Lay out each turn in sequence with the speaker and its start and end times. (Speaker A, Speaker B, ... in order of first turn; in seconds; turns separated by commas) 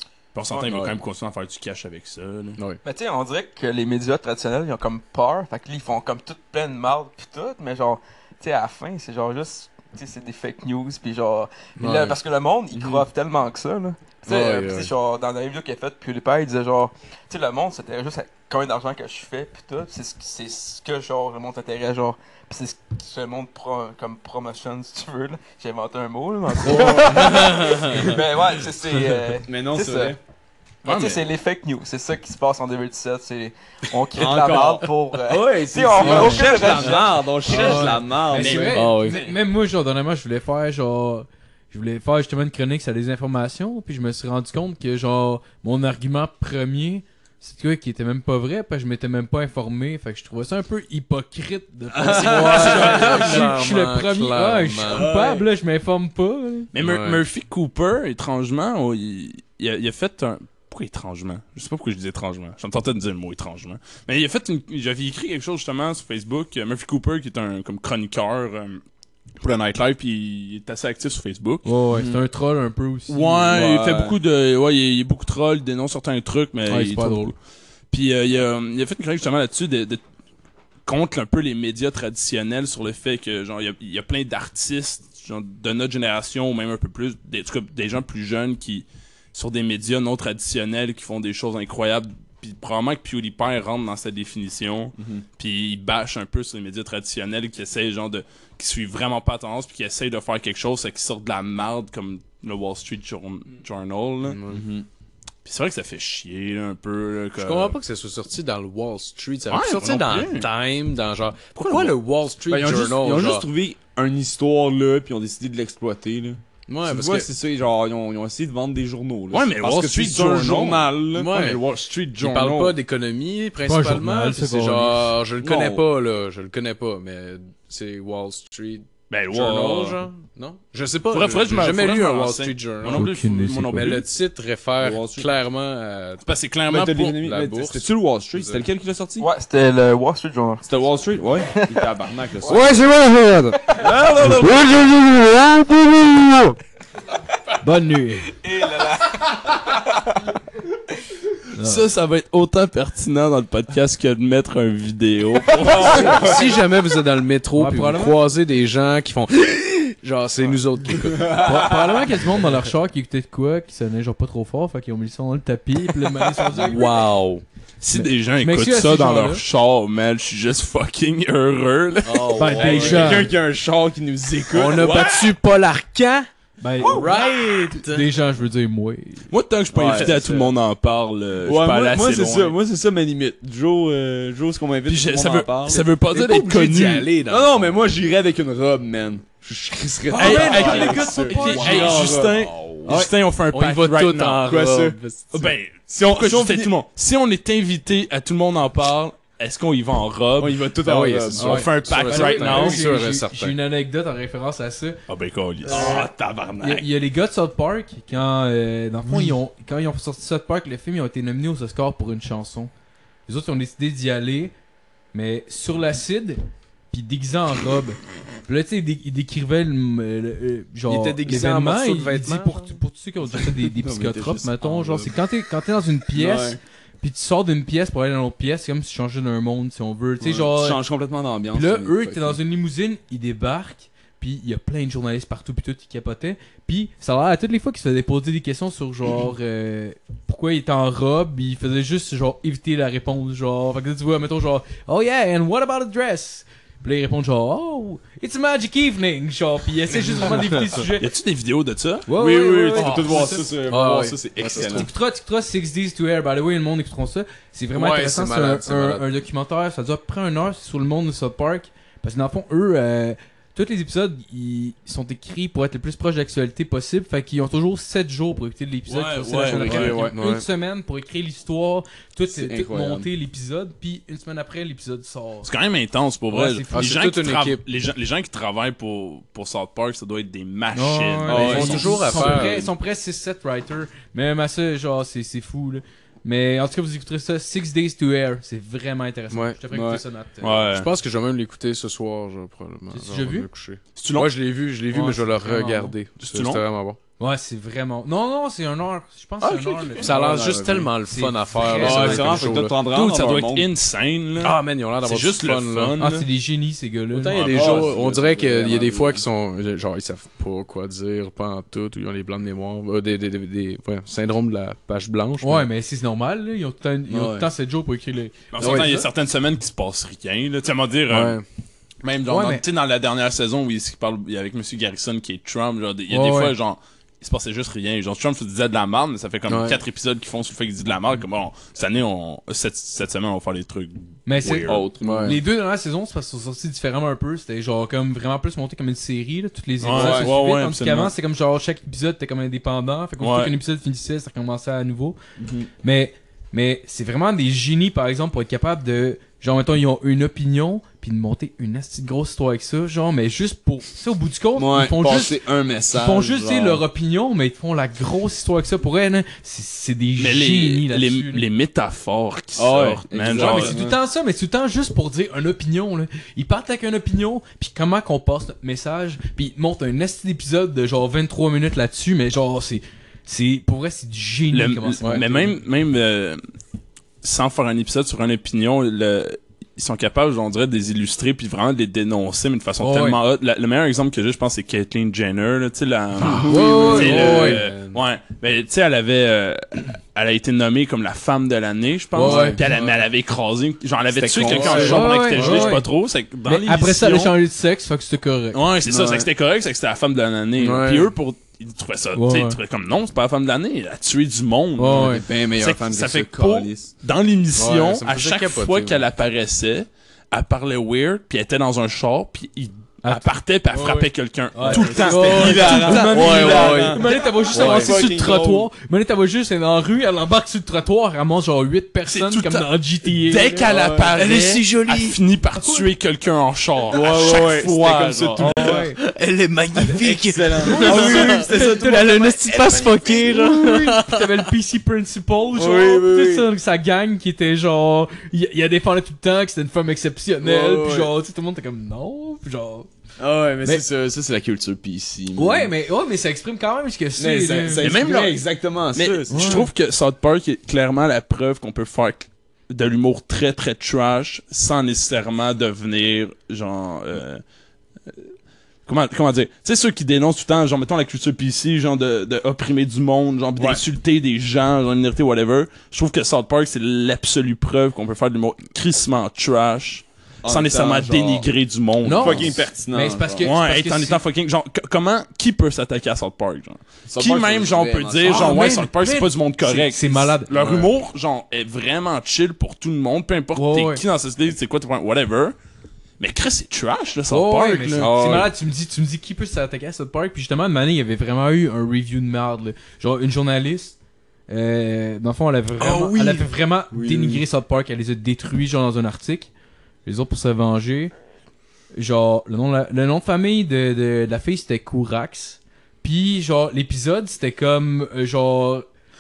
Speaker A: 0.3-2.6, Speaker B: 0.5-0.8, Speaker C: 0.7-0.9, Speaker B: 2.8-30.2, Speaker D: 11.8-12.2, Speaker C: 12.7-13.0, Speaker D: 14.2-14.9, Speaker C: 26.6-28.1, Speaker D: 26.6-28.1, Speaker C: 29.4-30.2, Speaker B: 30.8-37.8, Speaker A: 30.8-31.2, Speaker C: 34.1-39.3, Speaker E: 36.0-36.4, Speaker D: 36.2-36.9, Speaker E: 37.5-56.7, Speaker D: 38.4-39.2, Speaker C: 52.0-53.3, Speaker D: 52.1-55.1, Speaker A: 52.7-53.4, Speaker C: 54.8-55.5, Speaker A: 56.7-68.8, Speaker D: 56.8-57.2, Speaker A: 69.4-71.7, Speaker E: 71.6-73.6, Speaker C: 71.9-72.2, Speaker A: 73.1-77.3, Speaker C: 73.5-74.2, Speaker E: 76.7-77.3, Speaker A: 77.9-80.0, Speaker A: 80.8-104.4, Speaker C: 95.0-95.2, Speaker D: 104.2-104.6, Speaker C: 104.5-104.8, Speaker A: 105.4-107.8, Speaker D: 107.4-113.5, Speaker A: 109.5-110.5, Speaker A: 111.5-112.0, Speaker C: 112.5-121.6, Speaker D: 116.7-117.3, Speaker A: 119.3-122.8, Speaker D: 121.1-121.6, Speaker C: 122.2-122.6, Speaker D: 122.2-133.1, Speaker E: 123.6-125.1, Speaker C: 125.4-125.8, Speaker A: 129.1-130.0, Speaker A: 131.1-134.1, Speaker E: 132.9-134.0, Speaker D: 133.8-136.2, Speaker C: 134.8-135.3, Speaker A: 136.2-137.2, Speaker C: 136.7-139.3, Speaker D: 136.9-138.7, Speaker B: 139.2-140.6, Speaker C: 140.6-142.7, Speaker B: 141.5-141.8, Speaker B: 142.4-142.9, Speaker B: 143.6-144.1, Speaker C: 143.7-145.0, Speaker A: 143.8-144.6, Speaker E: 147.6-148.3, Speaker B: 148.4-150.1, Speaker E: 151.5-151.8, Speaker A: 151.6-156.2, Speaker C: 155.6-156.6, Speaker D: 156.0-161.4, Speaker E: 157.5-158.2, Speaker C: 160.9-162.2, Speaker E: 161.3-166.9, Speaker C: 166.3-166.7, Speaker D: 166.5-167.4, Speaker A: 167.8-172.8, Speaker E: 167.9-169.4, Speaker D: 172.1-173.3, Speaker C: 172.3-175.3, Speaker E: 172.3-173.3, Speaker D: 174.5-176.3, Speaker E: 176.6-177.1, Speaker C: 176.8-177.2, Speaker D: 176.8-178.0, Speaker E: 177.8-179.3, Speaker A: 179.3-182.6, Speaker C: 179.7-180.5, Speaker C: 181.4-185.9, Speaker A: 184.8-187.1, Speaker D: 186.1-187.7, Speaker C: 187.2-193.1, Speaker E: 190.1-192.1, Speaker A: 190.1-194.5, Speaker D: 190.2-195.5, Speaker C: 194.4-196.7, Speaker A: 195.3-200.7, Speaker C: 200.4-201.9, Speaker D: 200.8-203.5, Speaker A: 201.3-203.0, Speaker E: 201.4-205.0, Speaker A: 205.1-206.8, Speaker E: 205.7-206.1, Speaker C: 205.7-206.1, Speaker E: 206.6-212.7, Speaker E: 213.3-214.5, Speaker E: 215.1-216.4, Speaker E: 216.9-230.8, Speaker D: 220.9-222.8, Speaker C: 223.3-225.2, Speaker C: 226.1-226.6, Speaker C: 230.2-232.4, Speaker E: 231.5-251.1, Speaker A: 251.0-252.1, Speaker E: 252.1-253.5, Speaker C: 252.1-254.9, Speaker D: 252.7-254.9, Speaker E: 254.5-275.5, Speaker D: 257.7-259.0, Speaker A: 268.9-270.0, Speaker C: 269.5-270.1, Speaker D: 269.5-270.4, Speaker C: 272.3-273.1, Speaker A: 275.4-282.5, Speaker E: 276.3-277.0, Speaker D: 276.7-277.6, Speaker E: 280.7-290.7, Speaker C: 281.3-282.2, Speaker D: 281.4-282.7, Speaker D: 289.3-289.6, Speaker C: 289.7-290.0, Speaker A: 290.4-290.9, Speaker D: 290.7-297.0, Speaker E: 292.9-293.5, Speaker A: 293.9-294.3, Speaker E: 294.9-295.9, Speaker A: 296.2-296.6, Speaker E: 297.2-300.1, Speaker A: 299.4-300.1, Speaker C: 299.9-301.0, Speaker D: 300.0-302.8, Speaker E: 301.1-302.6, Speaker C: 301.7-303.7, Speaker A: 302.8-306.3, Speaker D: 304.4-305.9, Speaker E: 306.0-307.4, Speaker D: 307.1-315.7, Speaker A: 307.3-307.9, Speaker C: 307.5-309.2, Speaker E: 315.4-319.1, Speaker C: 317.1-317.5, Speaker A: 318.5-321.4, Speaker D: 321.1-321.4, Speaker A: 322.0-334.9, Speaker E: 322.2-322.6, Speaker E: 326.1-326.5, Speaker D: 329.5-329.8, Speaker E: 334.2-345.2, Speaker C: 334.4-335.4, Speaker D: 335.0-335.4, Speaker A: 339.8-341.1, Speaker C: 339.9-340.3, Speaker A: 343.2-343.5, Speaker C: 345.4-345.7, Speaker E: 345.8-361.4, Speaker C: 354.5-356.8, Speaker A: 360.2-363.8, Speaker C: 362.6-364.0, Speaker E: 363.3-375.5, Speaker A: 374.5-376.4, Speaker A: 377.2-397.3, Speaker E: 382.8-383.2, Speaker C: 386.2-387.5, Speaker D: 386.2-388.0, Speaker E: 386.4-387.6, Speaker D: 392.1-392.6, Speaker E: 392.1-392.9, Speaker C: 394.1-395.8, Speaker D: 394.5-394.9, Speaker E: 394.6-395.9, Speaker E: 396.4-398.6, Speaker A: 398.5-416.1, Speaker C: 398.8-399.3, Speaker D: 400.6-401.1, Speaker E: 402.1-402.6, Speaker E: 404.8-405.2, Speaker C: 404.9-406.9, Speaker D: 407.6-409.0, Speaker E: 413.0-423.7, Speaker C: 414.7-418.7, Speaker D: 415.2-418.0, Speaker A: 422.1-428.6, Speaker C: 423.7-424.1, Speaker D: 424.1-425.2, Speaker C: 426.9-428.9, Speaker D: 427.0-434.4, Speaker E: 428.4-429.0, Speaker C: 429.8-432.2, Speaker E: 430.6-442.9, Speaker C: 435.5-436.5, Speaker C: 440.4-441.1, Speaker C: 443.2-445.7, Speaker E: 445.4-447.9, Speaker C: 447.1-449.6, Speaker A: 447.8-448.4, Speaker A: 448.9-457.4, Speaker E: 449.3-449.7, Speaker A: 458.9-472.6, Speaker C: 463.6-463.8, Speaker C: 470.4-471.4, Speaker E: 472.0-474.2, Speaker C: 472.1-473.5, Speaker A: 473.4-485.5, Speaker C: 477.1-478.7, Speaker E: 478.3-480.5, Speaker D: 480.6-480.9, Speaker E: 483.5-484.0, Speaker A: 486.2-488.4, Speaker E: 487.3-493.9, Speaker D: 488.0-488.5, Speaker C: 488.0-488.5, Speaker E: 494.5-499.5, Speaker A: 495.8-496.5, Speaker C: 496.9-497.4, Speaker E: 500.1-501.1, Speaker E: 501.9-508.9